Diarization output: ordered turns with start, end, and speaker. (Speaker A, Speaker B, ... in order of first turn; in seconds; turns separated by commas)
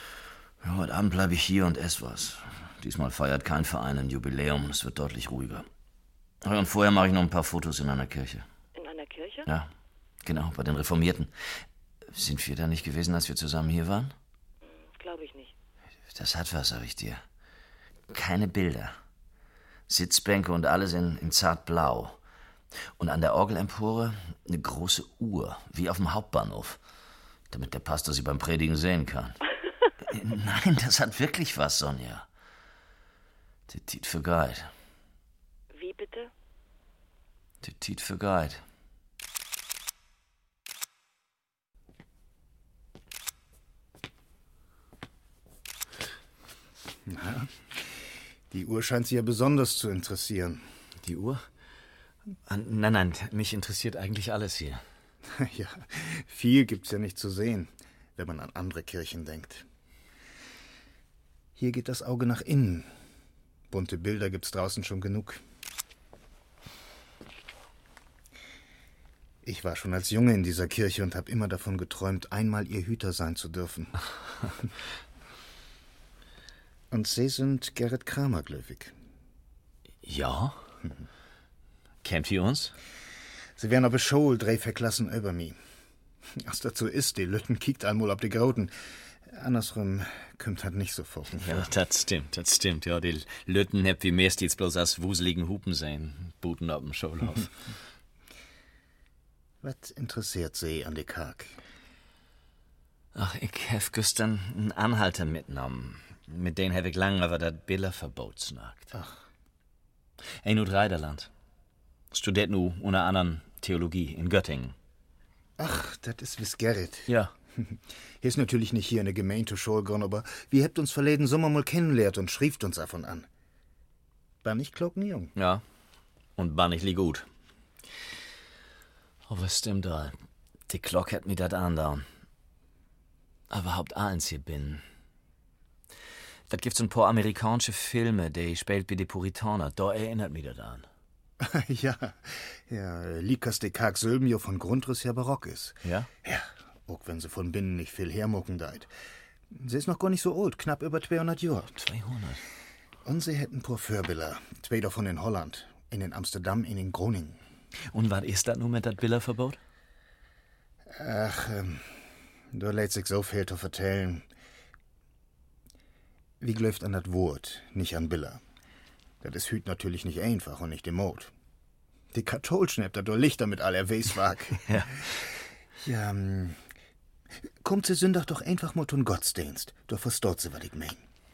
Speaker A: 0.6-5.7, Speaker A: 6.4-8.4, Speaker B: 8.7-9.5, Speaker A: 10.2-11.3, Speaker A: 12.1-14.1, Speaker B: 14.7-15.5, Speaker A: 16.1-17.2, Speaker A: 18.1-18.9, Speaker A: 19.9-22.1, Speaker A: 23.0-26.8, Speaker A: 27.5-29.4, Speaker A: 30.0-32.3, Speaker A: 33.7-34.7, Speaker B: 35.7-36.3, Speaker A: 37.6-38.6, Speaker C: 47.1-47.9, Speaker C: 48.5-50.6, Speaker A: 51.0-51.4, Speaker A: 52.5-54.8, Speaker C: 55.4-59.6, Speaker C: 61.5-62.9, Speaker C: 63.7-65.4, Speaker C: 69.4-74.0, Speaker C: 76.9-78.9, Speaker A: 80.0-80.5, Speaker A: 82.0-82.7, Speaker C: 83.5-85.5, Speaker C: 86.4-88.7, Speaker C: 89.3-91.7, Speaker A: 91.4-97.5, Speaker C: 99.6-101.6, Speaker A: 103.1-108.9, Speaker C: 108.9-109.2, Speaker A: 110.4-111.3, Speaker A: 112.1-114.7, Speaker C: 115.6-117.1, Speaker C: 118.2-123.3, Speaker C: 124.4-125.3, Speaker A: 125.3-125.6, Speaker A: 126.4-127.2, Speaker A: 129.3-130.1, Speaker A: 130.7-132.0, Speaker A: 133.5-134.8, Speaker A: 136.5-140.8, Speaker C: 141.4-148.9, Speaker C: 149.5-151.8, Speaker A: 151.8-152.4, Speaker C: 153.0-157.4, Speaker A: 157.9-159.6, Speaker C: 160.9-161.9, Speaker C: 162.5-164.2, Speaker C: 166.4-168.4, Speaker C: 169.2-171.3, Speaker C: 172.1-174.6, Speaker A: 174.7-174.9, Speaker C: 175.8-176.6, Speaker C: 177.6-181.0